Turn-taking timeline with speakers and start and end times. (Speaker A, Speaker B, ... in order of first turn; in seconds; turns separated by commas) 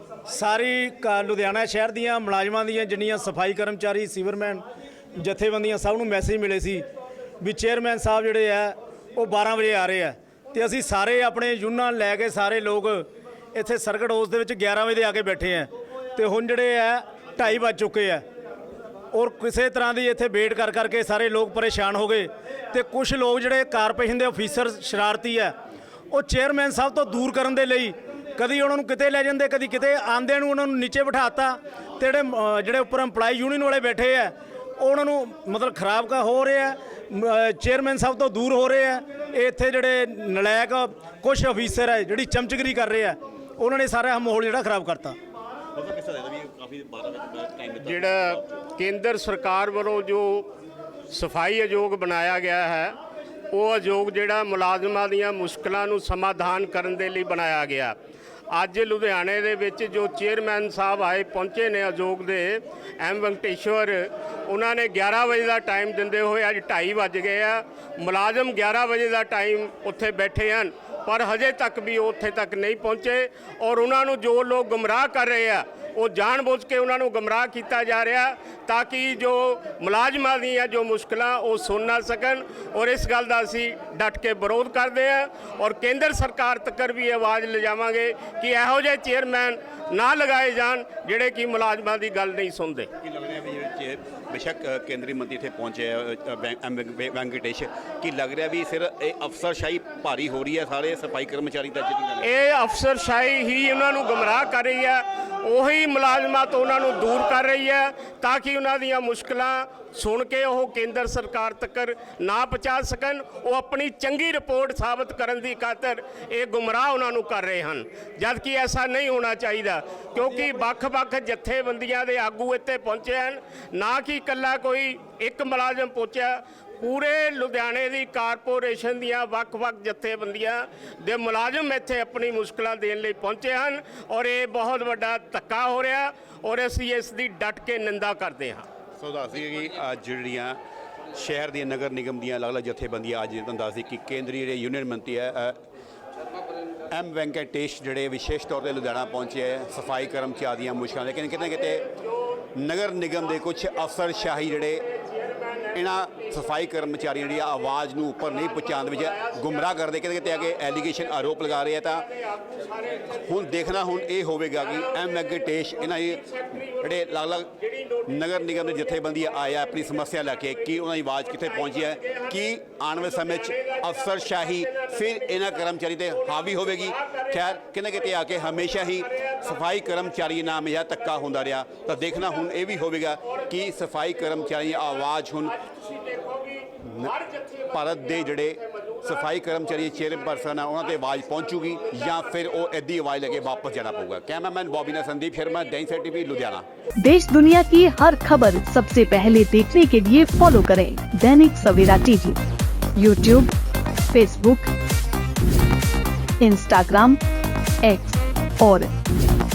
Speaker A: 0.3-4.6, Speaker A: 5.2-6.8, Speaker A: 7.4-18.2, Speaker A: 19.1-25.5, Speaker A: 26.1-45.1, Speaker B: 45.7-48.5, Speaker C: 47.8-50.5, Speaker C: 51.1-53.0, Speaker C: 53.5-58.0, Speaker C: 58.5-92.9, Speaker B: 93.0-102.3, Speaker C: 102.2-138.7, Speaker B: 139.0-140.6, Speaker B: 141.1-145.6, Speaker B: 146.9-151.9, Speaker B: 152.5-154.9, Speaker C: 154.8-155.8, Speaker B: 155.7-162.1, Speaker C: 158.3-159.7, Speaker C: 162.1-163.3, Speaker B: 163.1-166.2, Speaker C: 164.6-172.4, Speaker B: 166.8-185.6, Speaker C: 173.0-175.7, Speaker C: 176.3-179.5, Speaker C: 185.5-192.6, Speaker B: 186.8-187.1, Speaker B: 187.7-196.7, Speaker D: 197.0-202.4, Speaker D: 203.0-203.5, Speaker D: 204.1-204.7, Speaker D: 206.4-207.2, Speaker D: 207.8-208.9